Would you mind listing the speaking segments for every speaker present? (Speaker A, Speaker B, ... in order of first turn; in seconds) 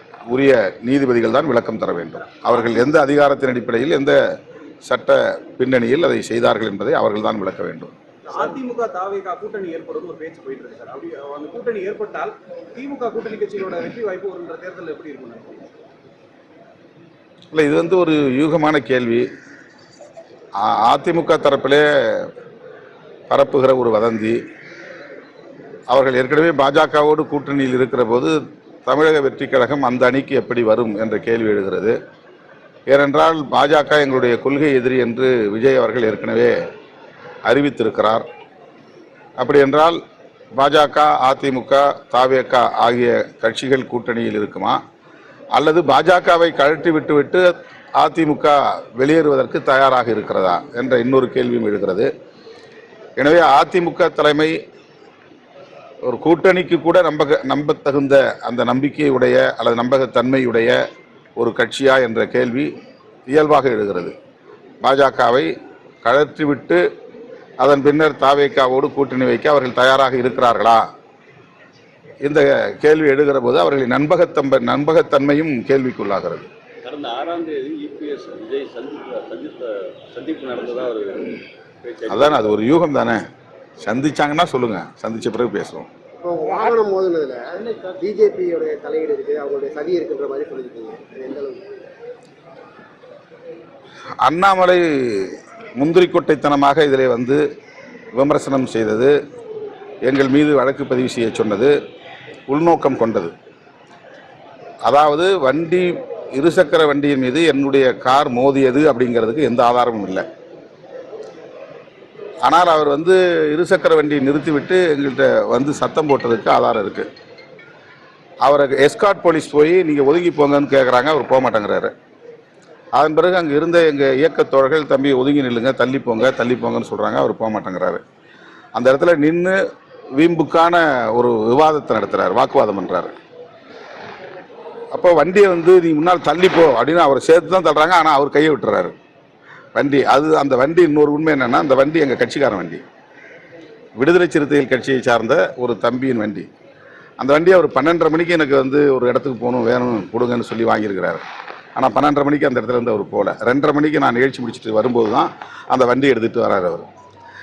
Speaker A: 0.3-4.2, 4.9-7.9, 17.5-19.3, 20.6-22.3, 23.3-24.4, 25.9-28.4, 28.9-32.0, 32.9-36.6, 37.5-38.3, 39.4-40.0, 40.6-44.8, 45.6-52.1, 53.2-54.5, 56.0-60.8, 61.4-62.7, 63.3-64.2, 64.8-65.5, 66.0-66.8, 67.6-70.9, 72.2-76.5, 82.1-83.2, 83.8-85.9, 94.2-97.4, 98.2-99.1, 100.1-101.7, 102.5-103.3, 104.9-110.2, 112.5-117.1, 118.5-121.9, 123.0-128.0, 128.8-129.6, 130.2-133.1, 134.9-138.9, 139.8-142.8, 144.0-146.5, 147.2-151.2, 151.8-156.9
Speaker B: 8.2-15.7
Speaker C: 76.8-82.6
Speaker D: 86.2-91.6